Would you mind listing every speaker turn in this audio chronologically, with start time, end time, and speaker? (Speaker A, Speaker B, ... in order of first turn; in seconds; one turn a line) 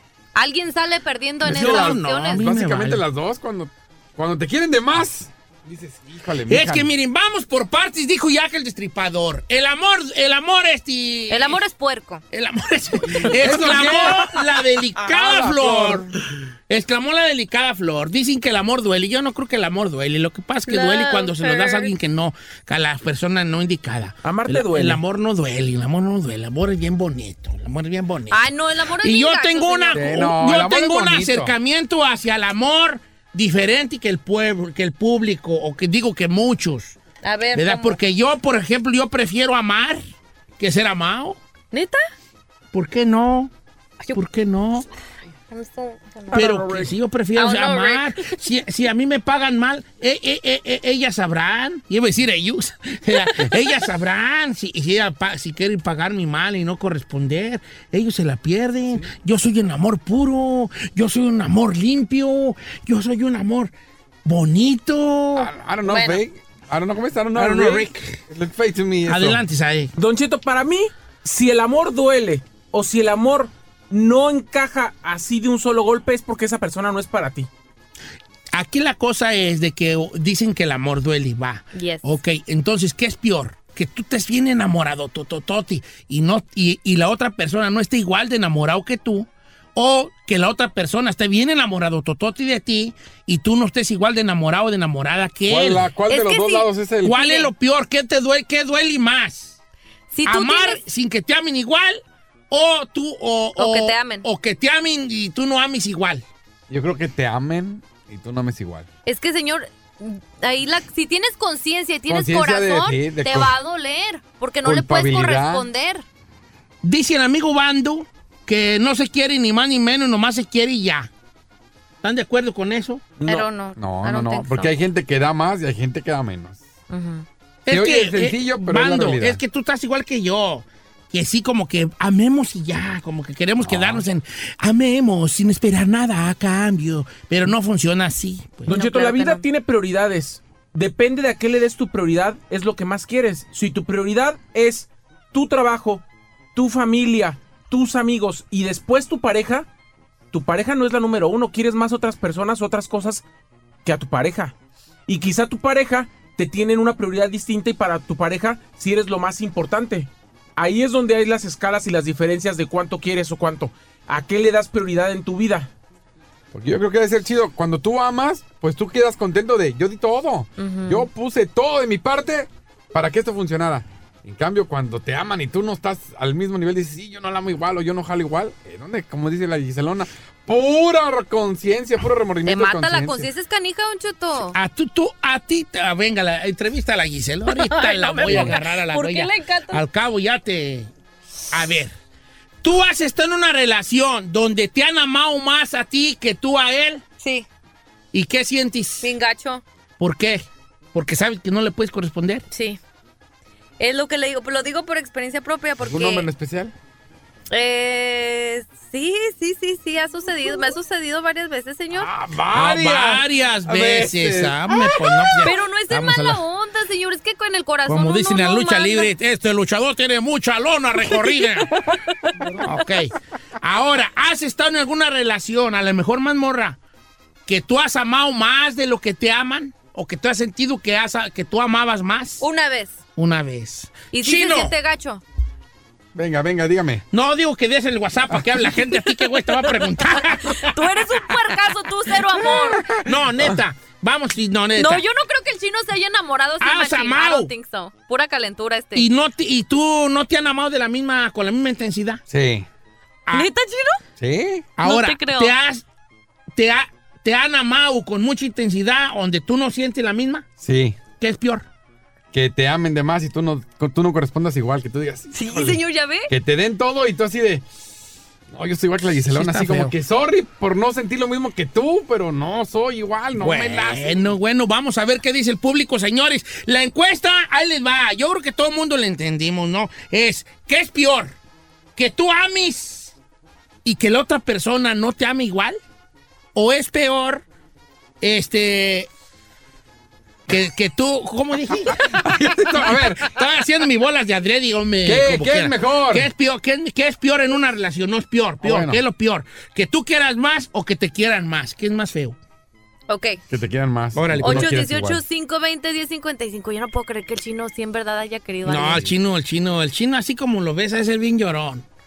Speaker A: 0.3-2.4
Speaker B: 1.4-3.0
Speaker C: 1.4-6.9
Speaker B: 6.5-11.6
Speaker A: 11.3-12.2
Speaker B: 12.3-16.1
Speaker C: 13.1-16.1
Speaker B: 16.7-28.5
Speaker A: 20.7-21.9
Speaker D: 24.2-25.0
Speaker A: 28.3-30.0
Speaker B: 29.0-37.0
Speaker C: 29.9-31.5
Speaker A: 37.2-38.0
Speaker B: 37.5-40.0
Speaker B: 40.6-41.4
Speaker A: 41.7-42.0
Speaker B: 42.7-43.5
Speaker B: 44.1-44.9
Speaker A: 45.5-46.4
Speaker D: 46.3-46.9
Speaker B: 46.3-63.7
Speaker A: 47.3-48.3
Speaker B: 64.2-65.5
Speaker C: 65.4-69.4
Speaker A: 65.9-66.2
Speaker B: 67.3-68.2
Speaker B: 69.0-69.9
Speaker D: 70.0-77.5
Speaker B: 78.5-95.9
Speaker A: 81.7-82.0
Speaker C: 95.5-97.4
Speaker A: 96.1-96.7
Speaker B: 97.0-99.6
Speaker A: 100.1-100.8
Speaker B: 100.2-106.2
Speaker A: 103.6-104.2
Speaker C: 106.7-108.9
Speaker A: 109.0-116.0
Speaker C: 112.1-113.5
Speaker C: 114.6-115.7
Speaker B: 116.8-121.1
Speaker B: 122.0-123.0
Speaker D: 123.2-123.5
Speaker A: 123.3-124.8
Speaker C: 123.8-126.6
Speaker A: 126.9-127.3
Speaker B: 127.7-138.8
Speaker C: 127.7-129.4
Speaker C: 133.6-134.1
Speaker D: 138.7-146.0
Speaker A: 138.7-139.4
Speaker D: 146.6-149.7
Speaker D: 150.3-153.2
Speaker D: 153.8-154.5
Speaker D: 155.1-165.7
Speaker C: 166.5-183.3
Speaker A: 170.6-171.1
Speaker A: 182.4-184.6
Speaker B: 184.5-190.9
Speaker A: 187.5-189.8
Speaker C: 188.3-188.5
Speaker B: 191.5-191.9
Speaker B: 192.6-197.0
Speaker A: 197.2-197.5
Speaker B: 198.1-199.1
Speaker A: 199.0-199.6
Speaker B: 200.0-202.4
Speaker A: 202.5-202.8
Speaker A: 203.8-206.3
Speaker C: 205.8-206.7
Speaker A: 207.5-212.1
Speaker C: 211.9-214.8
Speaker B: 212.5-216.4
Speaker A: 215.4-219.1
Speaker B: 217.9-221.8
Speaker A: 221.1-222.3
Speaker B: 222.6-226.8
Speaker B: 227.5-232.4
Speaker A: 232.4-232.9
Speaker B: 233.2-234.7
Speaker A: 234.1-235.2
Speaker C: 236.2-237.0
Speaker B: 237.1-240.7
Speaker C: 238.3-238.7
Speaker A: 240.5-242.9
Speaker C: 242.4-243.6
Speaker B: 243.1-245.1
Speaker A: 244.8-249.1
Speaker B: 246.6-247.5
Speaker B: 248.9-252.2
Speaker C: 252.3-252.7
Speaker A: 253.3-254.0
Speaker C: 254.2-254.7
Speaker B: 254.8-255.8
Speaker A: 254.8-255.5
Speaker B: 256.6-260.5
Speaker C: 260.6-261.0
Speaker B: 261.2-261.7
Speaker C: 262.3-267.6
Speaker A: 265.3-266.3
Speaker C: 268.5-274.3
Speaker B: 269.3-269.9
Speaker B: 273.3-281.4
Speaker B: 282.0-283.1
Speaker B: 283.8-285.8
Speaker B: 286.6-287.4
Speaker B: 288.2-289.1
Speaker B: 290.5-292.1
Speaker C: 292.0-293.4
Speaker B: 292.7-302.4
Speaker C: 295.0-296.3
Speaker C: 298.6-299.0
Speaker A: 303.1-303.4
Speaker C: 303.5-305.2
Speaker B: 304.1-304.8
Speaker A: 304.4-309.1
Speaker B: 308.6-311.9